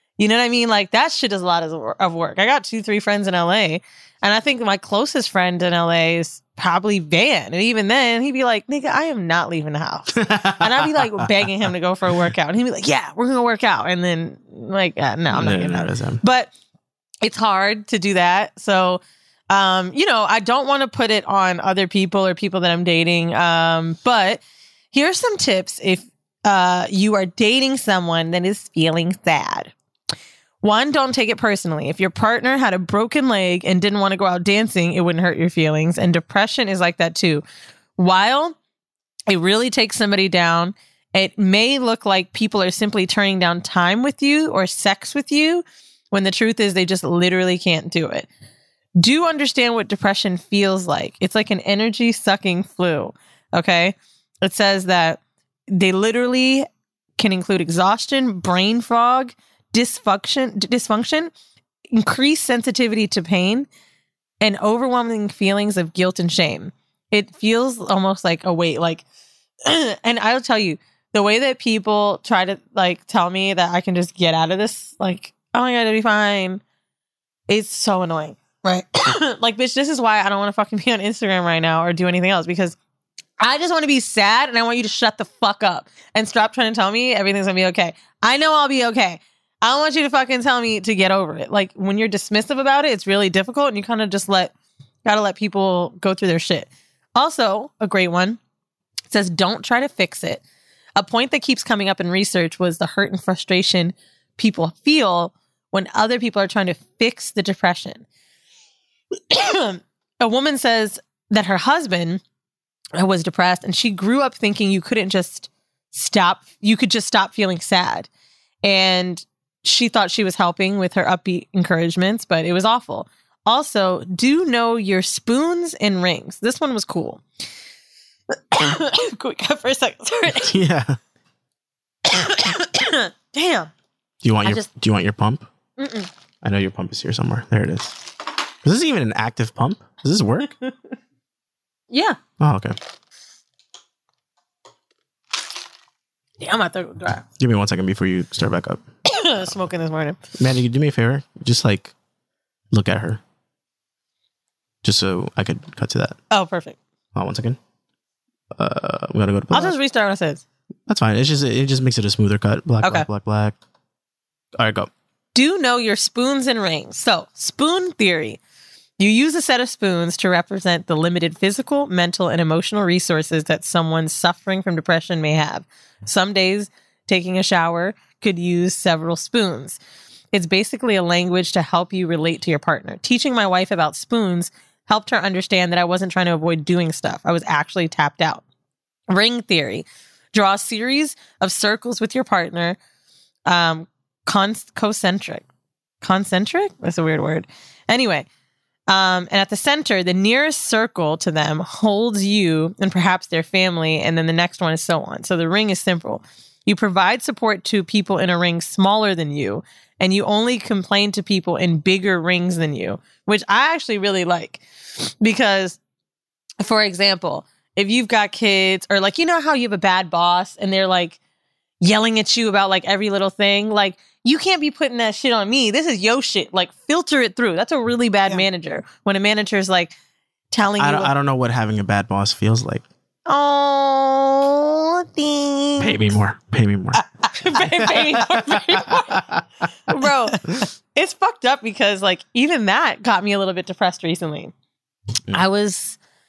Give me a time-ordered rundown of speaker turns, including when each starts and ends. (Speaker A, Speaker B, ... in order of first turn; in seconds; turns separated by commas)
Speaker A: 0.2-16.5, Speaker B: 10.1-11.3, Speaker B: 15.3-16.2, Speaker A: 17.2-24.4, Speaker A: 24.9-29.7, Speaker A: 30.6-37.4, Speaker A: 38.0-38.6, Speaker A: 39.3-48.3, Speaker A: 49.0-61.3, Speaker A: 61.9-63.7, Speaker A: 64.4-69.0, Speaker A: 69.6-76.6, Speaker A: 77.5-78.4, Speaker A: 79.0-82.8, Speaker A: 83.4-94.5, Speaker A: 95.1-98.4, Speaker A: 99.1-100.4, Speaker A: 101.0-108.0, Speaker A: 109.3-112.2, Speaker A: 113.0-118.1, Speaker A: 118.6-127.2, Speaker A: 128.3-130.5, Speaker B: 130.4-131.0, Speaker A: 132.1-133.7, Speaker B: 134.2-135.4, Speaker A: 134.4-134.7, Speaker A: 135.8-136.1, Speaker B: 136.4-138.1, Speaker B: 138.6-140.6, Speaker A: 141.9-142.2, Speaker B: 142.4-142.8, Speaker A: 146.4-147.2, Speaker B: 147.4-148.8, Speaker A: 149.1-150.2, Speaker B: 150.4-151.9, Speaker B: 152.7-153.2, Speaker B: 154.8-156.2, Speaker A: 156.3-156.8, Speaker B: 157.1-157.6, Speaker B: 158.6-159.8, Speaker A: 159.5-160.4, Speaker B: 160.9-163.6, Speaker B: 164.6-164.9, Speaker A: 165.3-168.4, Speaker A: 169.0-179.8, Speaker A: 180.3-188.4, Speaker A: 189.1-192.8, Speaker A: 193.5-195.4, Speaker A: 196.0-198.3, Speaker A: 198.9-214.6, Speaker A: 215.2-215.8, Speaker A: 216.6-221.2, Speaker A: 221.8-229.9, Speaker A: 230.5-231.1, Speaker B: 230.8-232.8, Speaker A: 233.3-236.1, Speaker B: 235.8-237.0, Speaker A: 237.3-239.2, Speaker B: 237.6-239.4, Speaker A: 239.9-244.5, Speaker A: 245.3-246.0